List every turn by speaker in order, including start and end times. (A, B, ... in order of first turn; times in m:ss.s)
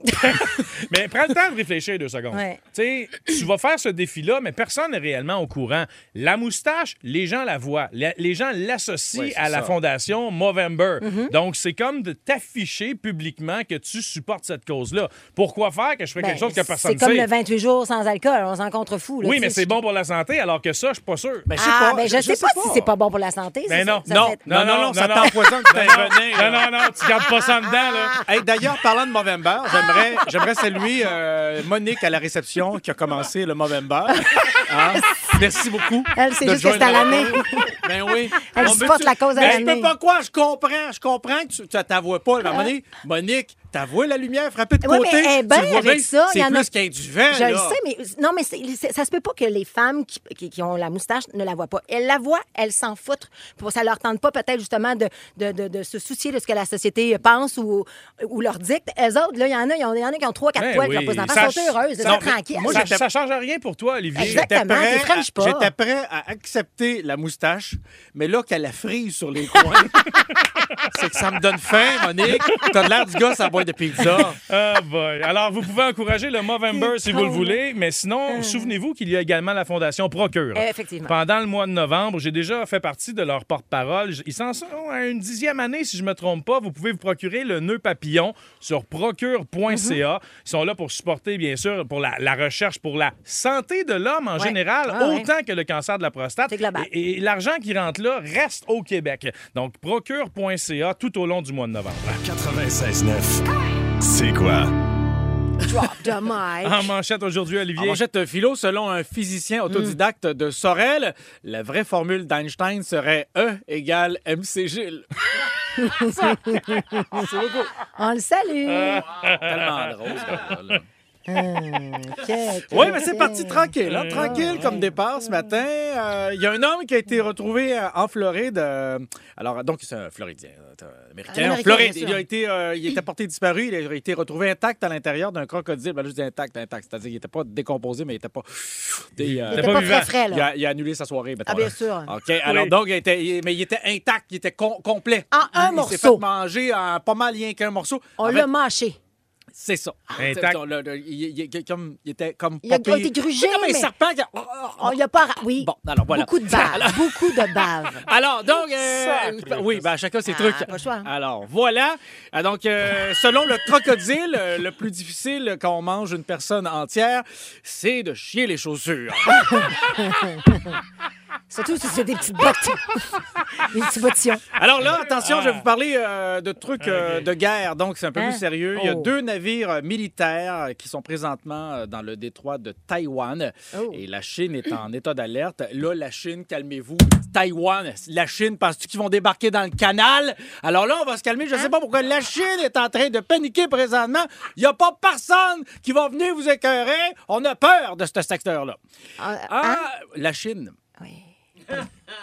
0:00.1-0:17.3 A
0:02.3-0:02.6 B
0:09.1-0:09.7 C
0:11.0-0:11.3 B
0:16.2-0:19.7 B
0:19.2-0:21.5 A
0:21.5-0:22.9 C
0:21.6-0:24.4 B
0:23.7-0:28.3 A
0:24.1-0:26.7 C
0:28.2-0:47.8 C
0:34.2-0:35.4 B
0:36.1-0:37.8 B
0:38.4-0:39.9 B
0:42.4-0:42.7 B
0:44.8-0:46.7 B
0:47.3-1:02.9 B
1:00.6-1:04.5 A
1:01.3-1:03.0 C
1:04.1-1:05.7 B
1:04.2-1:10.1 C
1:10.9-1:14.4 C
1:14.5-1:42.2 A
1:16.7-1:17.6 B
1:18.3-1:18.7 B
1:20.5-1:21.1 B
1:29.7-1:30.0 B
1:34.4-1:35.3 B
1:36.5-1:36.9 B
1:42.2-1:43.4 D
1:44.0-1:44.7 D
1:45.6-1:46.9 B
1:46.6-1:48.0 A
1:47.7-1:55.1 C
1:49.7-1:50.0 B
1:55.8-1:57.2 B
1:55.9-1:57.7 C
1:58.0-1:59.0 B
1:58.7-1:59.9 A
1:59.4-2:00.9 C
2:01.3-2:04.9 B
2:02.7-2:28.5 C
2:03.8-2:04.8 A
2:11.3-2:12.2 B
2:19.2-2:20.1 A
2:19.5-2:20.5 B
2:21.4-2:22.1 B
2:22.4-2:22.7 A
2:25.3-2:26.2 B
2:28.2-2:29.0 B
2:29.5-2:35.0 C
2:30.2-2:30.6 A
2:32.6-2:33.9 B
2:34.8-2:38.0 B
2:35.6-2:49.8 C
2:38.8-2:39.3 B
2:39.5-2:39.7 A
2:40.2-2:41.1 B
2:49.3-2:50.8 B
2:51.5-2:54.4 B
2:54.6-3:18.8 C
2:55.2-2:55.6 A
2:56.8-2:57.3 A
2:58.1-2:59.1 B
3:03.7-3:04.0 B
3:19.2-3:19.8 B
3:19.5-3:20.8 C
3:21.0-3:21.8 B